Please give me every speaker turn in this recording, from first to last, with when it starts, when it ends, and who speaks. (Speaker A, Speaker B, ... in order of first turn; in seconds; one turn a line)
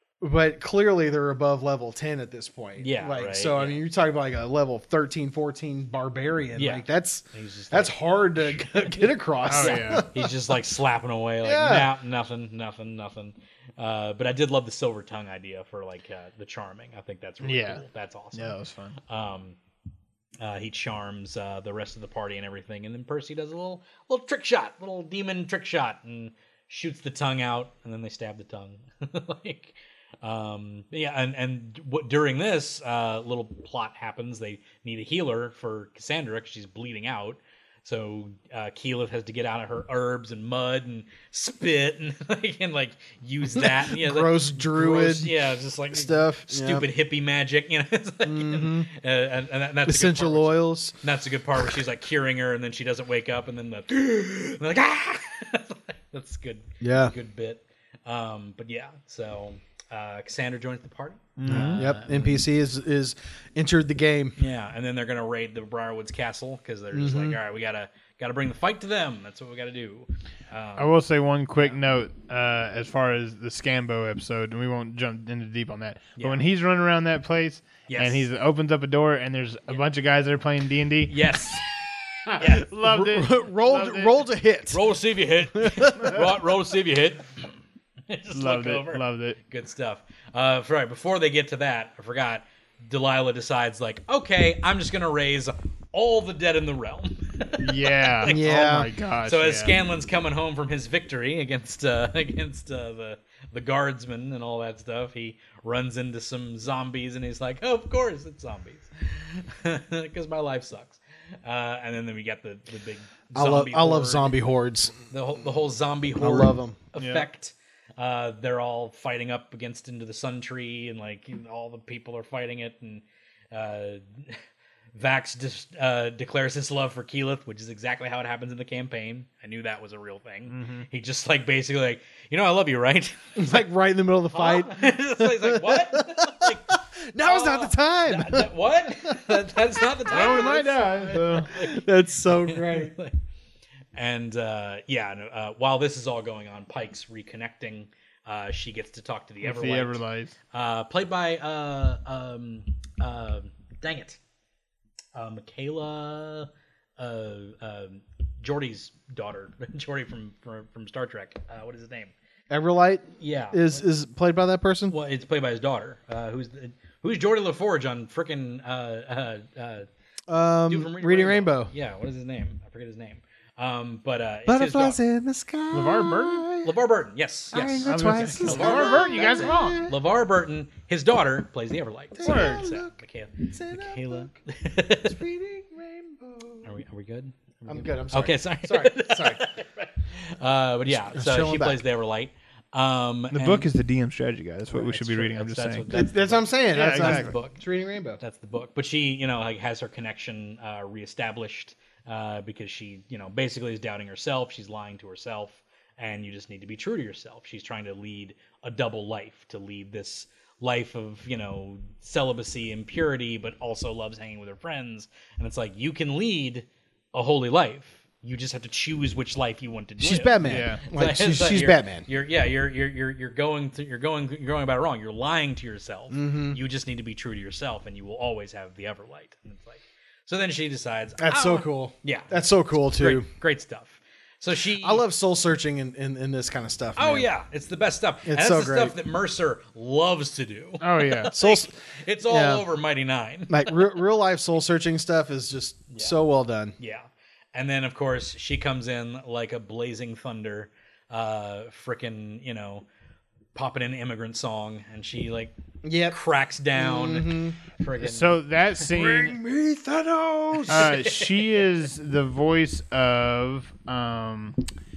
Speaker A: 0.2-10.5
Speaker B: 2.8-3.8
Speaker B: 6.5-19.6
Speaker C: 9.4-10.1
Speaker A: 11.4-11.9
Speaker C: 17.4-18.9
Speaker B: 20.4-62.4
Speaker A: 43.5-45.4
Speaker A: 45.9-46.8
Speaker A: 48.2-48.9
Speaker A: 49.8-51.0
Speaker A: 51.6-51.8
Speaker A: 56.8-57.1
Speaker C: 61.4-61.9
Speaker A: 61.5-64.4
Speaker B: 64.4-70.9
Speaker A: 66.9-67.4
Speaker C: 70.8-81.2
Speaker B: 76.2-76.4
Speaker B: 77.9-78.3
Speaker B: 81.1-81.6
Speaker C: 82.3-84.3
Speaker B: 82.3-82.7
Speaker A: 82.8-84.8
Speaker B: 84.7-87.5
Speaker A: 85.5-86.3
Speaker B: 88.1-114.3
Speaker C: 88.3-89.4
Speaker C: 97.6-99.7
Speaker A: 98.2-98.9
Speaker A: 113.3-114.9
Speaker B: 115.1-124.4
Speaker A: 116.2-116.8
Speaker C: 117.0-117.3
Speaker B: 124.9-133.5
Speaker C: 130.5-130.8
Speaker A: 133.3-142.9
Speaker B: 134.3-143.2
Speaker C: 140.1-141.5
Speaker B: 143.9-154.2
Speaker C: 149.4-150.3
Speaker B: 155.1-162.1
Speaker A: 162.5-164.9
Speaker B: 163.2-163.8
Speaker B: 164.9-169.9
Speaker A: 170.3-171.7
Speaker B: 170.7-175.0
Speaker A: 174.4-176.7
Speaker C: 175.7-176.4
Speaker B: 176.6-185.2
Speaker A: 177.5-179.9
Speaker C: 177.8-179.8
Speaker A: 182.1-182.9
Speaker C: 182.2-182.7
Speaker A: 183.5-184.3
Speaker A: 185.0-186.7
Speaker B: 186.6-193.7
Speaker A: 187.7-189.5
Speaker A: 190.8-191.8
Speaker C: 193.3-195.9
Speaker B: 194.7-197.6
Speaker A: 195.9-198.2
Speaker C: 196.7-197.3
Speaker B: 198.2-235.0
Speaker A: 220.0-222.1
Speaker C: 220.4-220.8
Speaker A: 226.1-226.6
Speaker A: 231.2-233.2
Speaker A: 234.8-237.3
Speaker B: 236.9-243.9
Speaker A: 238.2-238.9
Speaker C: 240.8-241.3
Speaker A: 241.3-241.7
Speaker A: 242.3-242.6
Speaker A: 243.5-246.8
Speaker B: 245.9-246.2
Speaker B: 246.8-252.8
Speaker B: 253.5-255.5
Speaker A: 255.8-256.2
Speaker B: 256.1-258.4
Speaker A: 256.7-257.6
Speaker C: 257.9-259.4
Speaker A: 258.8-260.9
Speaker B: 260.6-261.6
Speaker C: 260.7-264.6